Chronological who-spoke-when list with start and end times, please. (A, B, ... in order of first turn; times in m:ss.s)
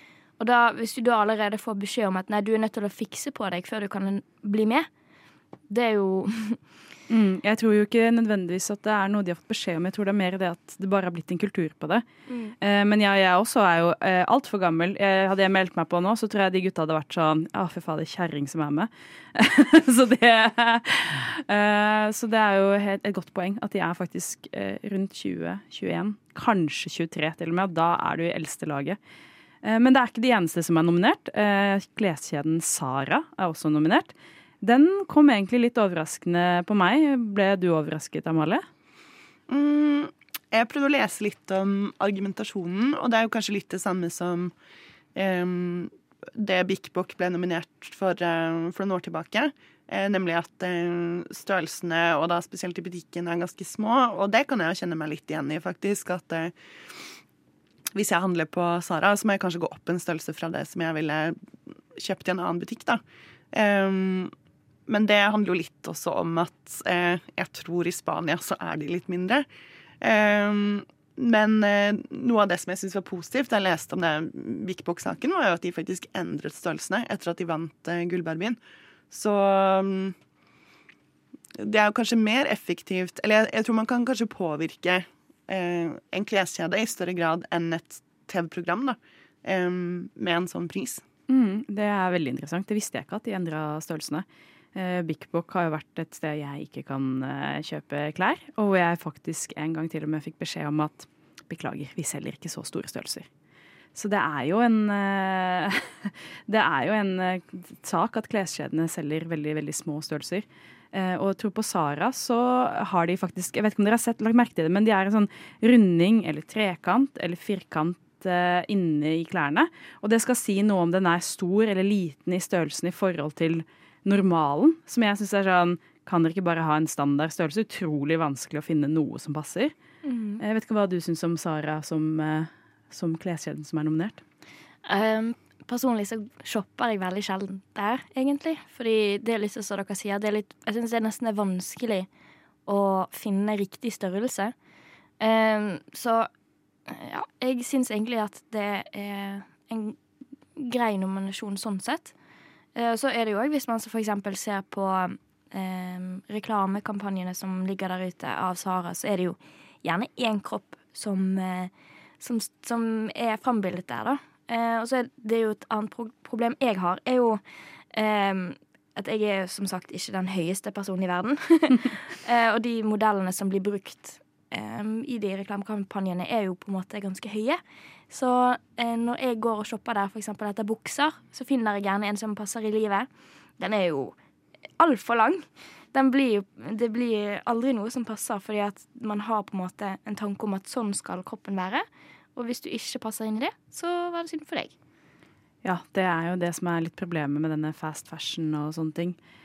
0:00.4-0:04.9 A
0:05.7-0:06.6 A
0:07.1-0:12.0 B
0:12.6-0:29.0 B
0:29.6-0:38.6 B
0:39.5-0:44.5 C
0:45.1-0:56.5 C
0:57.9-1:01.3 C
1:01.9-1:04.3 C
1:04.9-1:09.4 C
1:10.0-1:18.6 C
1:19.1-1:20.2 C
1:21.6-1:31.0 C
1:31.3-1:43.3 B
1:43.9-2:09.7 B
2:10.0-2:10.4 A
2:10.4-2:14.2 B
2:14.8-2:22.1 A
2:22.6-2:24.5 A
2:25.2-2:26.3 A
2:26.9-2:30.0 A
2:30.6-2:32.1 A
2:32.7-2:47.4 A
2:47.9-3:03.1 A
3:03.6-3:04.1 A
3:04.8-3:11.8 A
3:12.4-3:14.7 A
3:15.6-3:19.2 B